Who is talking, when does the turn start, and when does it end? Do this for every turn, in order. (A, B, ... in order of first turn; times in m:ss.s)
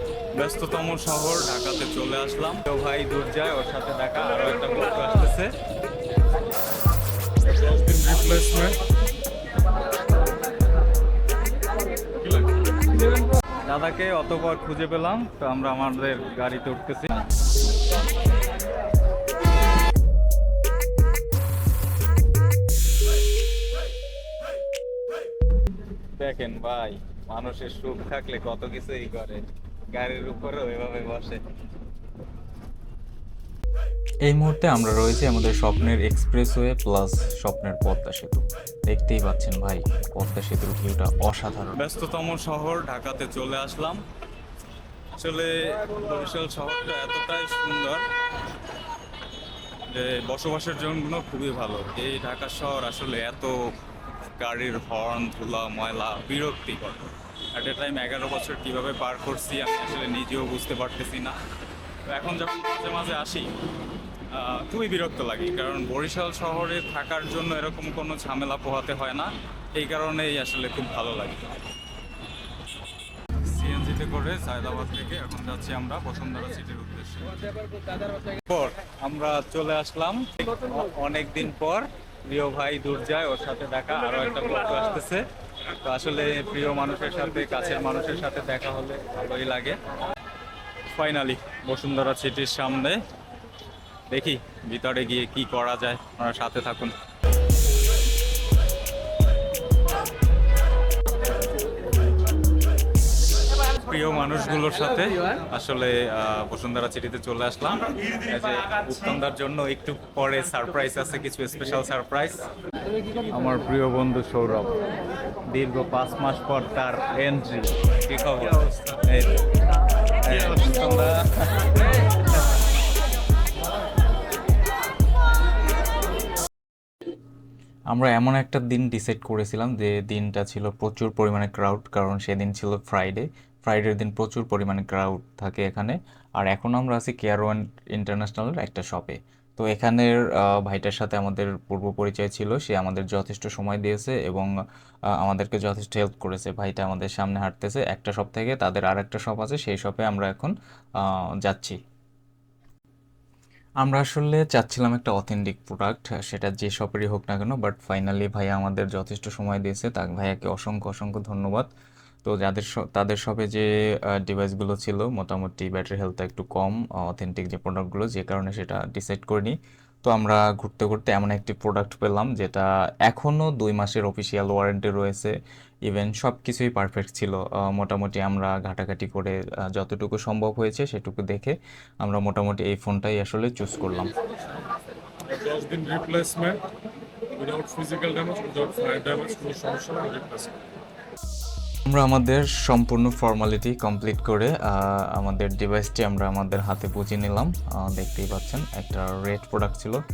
0:00.4-0:05.5 A
0:07.4-0:08.8 B
0:12.2-0:12.6 B
0:13.6-0:17.3 A
0:26.2-0:31.4 A
0:34.2-0:41.8 C
0:41.8-0:44.0 A
0:45.2-0:48.0 A
0:49.9-0:53.7 A
0:54.4-1:01.4 A
1:02.1-1:03.5 A
1:04.3-1:11.6 A
1:13.4-1:25.2 A
1:25.8-1:29.8 A
1:30.9-1:33.0 A
1:34.1-1:36.9 A
1:43.6-1:52.5 A
1:53.3-1:54.8 A
1:55.5-1:59.4 A
2:00.2-2:01.8 A
2:07.9-2:24.5 C
2:25.2-2:31.8 C
2:33.8-2:41.7 C
2:42.2-2:55.4 C
2:55.9-3:04.1 C
3:05.3-3:06.6 B
3:07.4-3:10.6 B
3:11.9-3:20.0 C